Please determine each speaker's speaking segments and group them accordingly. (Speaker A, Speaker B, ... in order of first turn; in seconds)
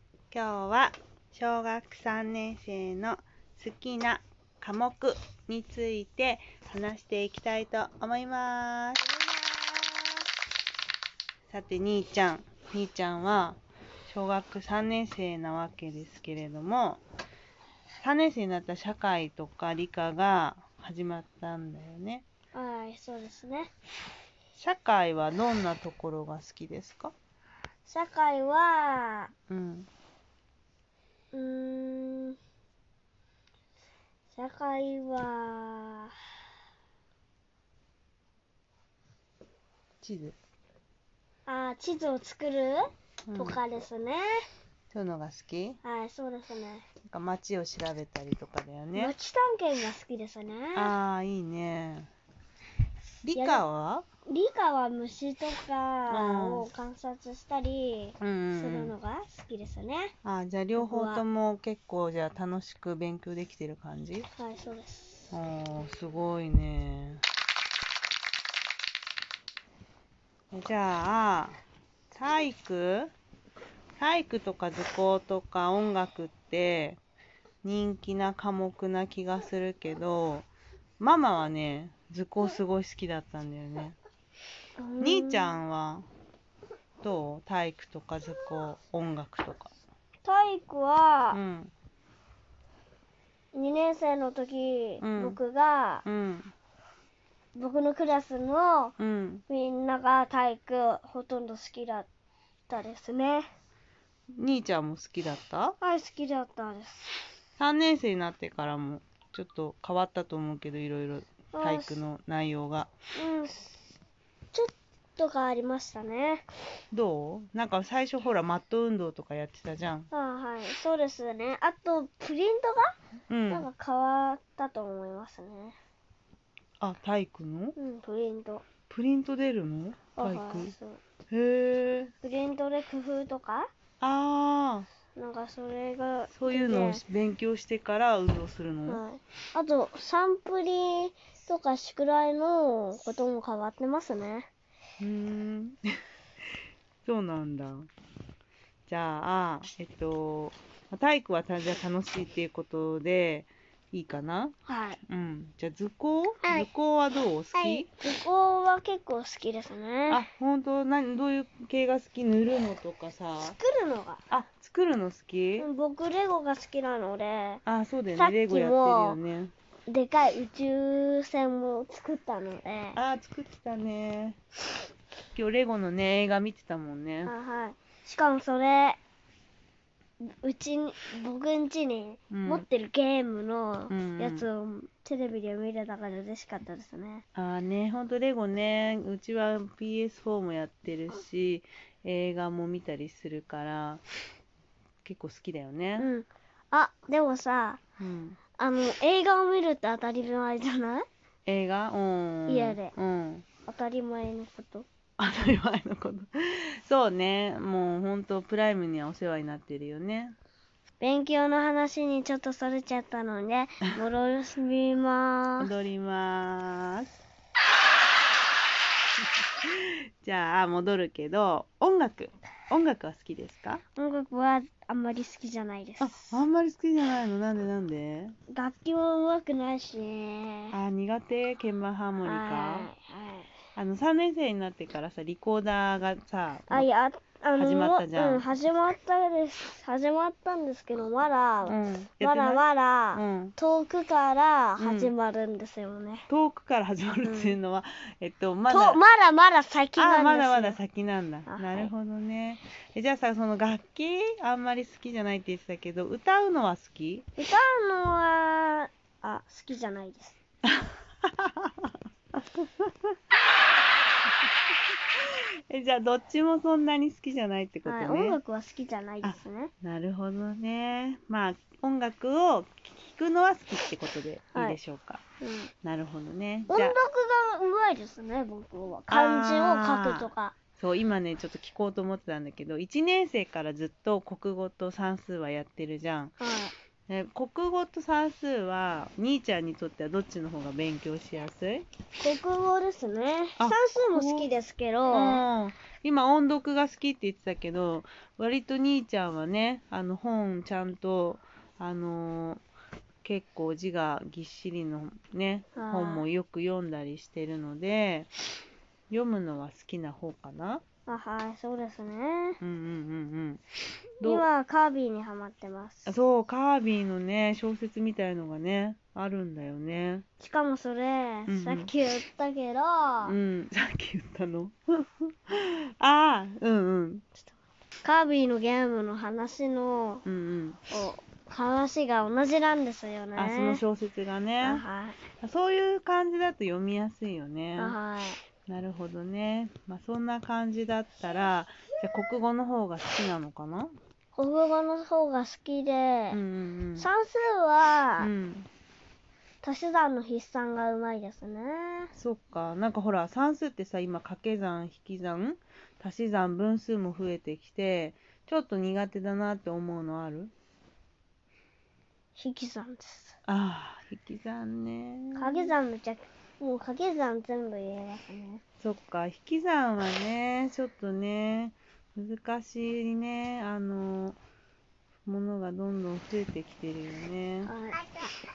Speaker A: 0.3-9.0, 11.5-17.0, 18.0-22.2, 24.6-27.1, 29.5-29.9, 40.0-40.4, 43.3-43.6, 44.9-45.8, 47.0-49.1, 50.8-52.1, 53.2-54.0, 56.1-56.7, 58.2-58.9, 60.2-64.3, 65.3-67.2, 70.5-71.6, 72.1-73.1, 74.0-77.0, 77.6-80.5, 81.0-84.0, 85.0-86.1, 87.0-89.7, 91.3-91.7, 95.0-95.4, 96.0-96.5, 99.0-99.4, 104.3-105.8, 107.6-112.9, 116.9-120.1, 123.3-123.7, 126.8-127.8, 128.9-130.7, 131.3-132.1, 134.0-134.9, 136.3-139.0, 145.0-145.8, 147.0-147.9, 148.9-154.6, 155.1-157.9, 160.1-163.6, 164.3-165.7, 167.6-169.5, 172.9-174.4, 175.3-177.3, 182.3-182.6, 183.9-184.4, 187.3-194.0, 195.0-196.1, 198.0-198.4, 201.4-203.4, 205.2-210.3, 215.6-217.2, 219.4-223.8, 226.0-228.3, 230.7-232.9, 233.7-236.9, 237.5-238.4, 241.6-242.6, 243.1-243.5, 244.8-245.1, 246.3-249.0, 250.0-257.2, 260.6-262.9, 265.1-268.4, 269.2-275.2, 275.8-276.9, 279.1-286.4, 287.1-291.9, 293.6-294.5, 295.1-302.6, 303.2-308.3, 309.1-310.8, 312.6-313.6, 314.2-314.5, 316.1-320.2, 321.5-321.9, 323.2-327.2, 330.2-330.8, 333.4-334.8, 335.4-338.0, 338.7-343.9, 346.3-347.1, 348.2-348.7, 352.2-360.5, 363.5-365.7, 368.8-374.4, 375.2-377.7
Speaker B: 9.0-10.2, 22.5-23.7, 27.9-29.3, 31.3-32.4, 34.3-36.1, 41.5-42.8, 43.4-44.4, 45.8-46.9, 49.0-51.0, 53.3-53.6, 54.3-60.1, 60.8-61.2, 64.4-65.3, 84.8-85.5, 90.2-91.4, 93.5-96.0, 97.5-99.0, 99.5-102.1, 102.7-103.5, 105.8-107.2, 111.5-112.0, 113.1-113.9, 114.5-116.5, 120.1-122.9, 123.5-125.8, 127.8-128.6, 130.2-131.0, 132.2-133.7, 135.2-137.0, 138.9-144.5, 154.7-155.0, 157.5-160.2, 163.4-164.2, 165.6-167.6, 168.2-169.2, 169.9-173.0, 177.2-179.0, 180.2-187.2, 196.0-197.8, 198.6-201.1, 202.5-202.9, 203.7-204.9, 211.0-215.7, 224.0-226.4, 228.5-230.7, 232.2-233.5, 236.7-246.3, 247.2-247.6, 248.7-250.8, 251.5-251.9, 257.4-260.4, 267.9-269.7, 275.4-275.7, 276.7-280.6, 286.4-286.7, 292.2-295.4, 305.8-306.2, 311.1-312.6, 314.2-316.1, 320.4-323.4, 328.0-330.2, 330.9-333.8, 334.6-335.2, 337.8-338.4, 344.4-346.4, 347.0-348.3, 349.6-352.1, 362.4-363.4, 365.4-368.6, 377.6-378.3